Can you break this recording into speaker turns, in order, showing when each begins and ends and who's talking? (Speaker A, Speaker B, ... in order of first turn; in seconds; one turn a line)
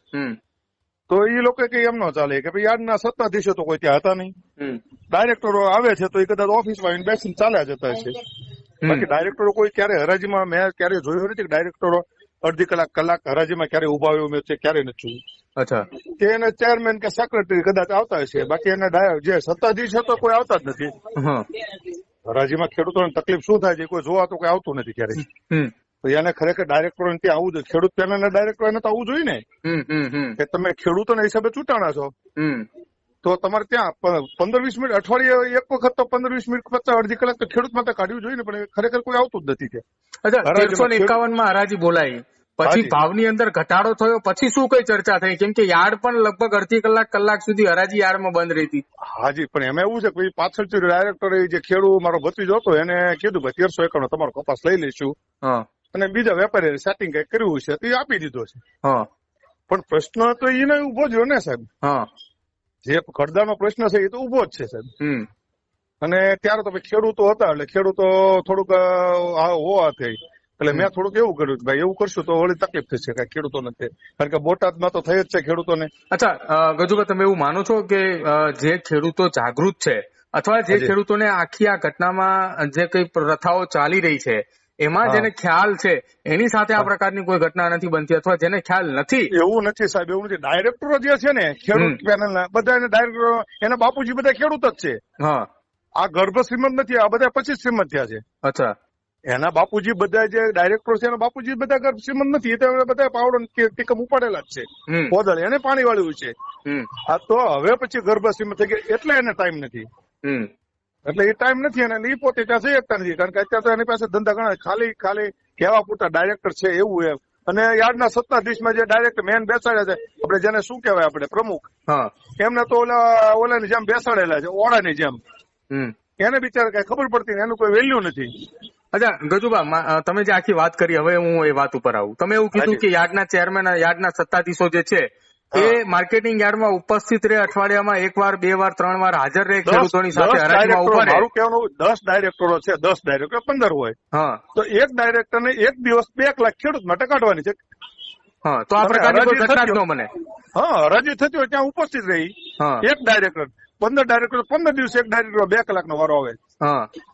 Speaker A: 1.1-4.3
Speaker A: 5.1-8.2
Speaker A: 8.8-15.2
Speaker B: 15.6-15.9
Speaker A: 16.2-20.9
Speaker B: 21.2-21.4
Speaker A: 22.2-25.2
Speaker A: 26.0-29.4
Speaker B: 29.6-30.4
Speaker A: 30.4-32.1
Speaker B: 32.4-32.6
Speaker A: 33.2-39.8
Speaker B: 40.2-48.8
Speaker A: 40.4-41.1
Speaker A: 42.6-42.9
Speaker A: 49.1-55.1
Speaker A: 55.9-58.6
Speaker A: 59.7-61.7
Speaker A: 62.8-64.9
Speaker B: 65.0-65.3
Speaker A: 66.0-75.9
Speaker B: 76.1-89.3
Speaker A: 85.0-85.3
Speaker A: 89.3-95.0
Speaker B: 91.8-92.0
Speaker B: 95.2-95.5
Speaker A: 96.0-98.2
Speaker B: 98.4-98.7
Speaker A: 99.3-106.3
Speaker B: 104.9-105.1
Speaker A: 107.1-109.8
Speaker B: 110.2-110.5
Speaker A: 111.1-121.7
Speaker A: 122.4-125.2
Speaker A: 126.2-128.3
Speaker B: 128.9-141.3
Speaker A: 132.5-132.8
Speaker A: 135.5-135.8
Speaker A: 139.6-143.9
Speaker B: 144.1-144.4
Speaker A: 144.5-147.6
Speaker B: 148.4-150.1
Speaker A: 148.8-149.8
Speaker A: 150.5-156.4
Speaker B: 156.6-156.9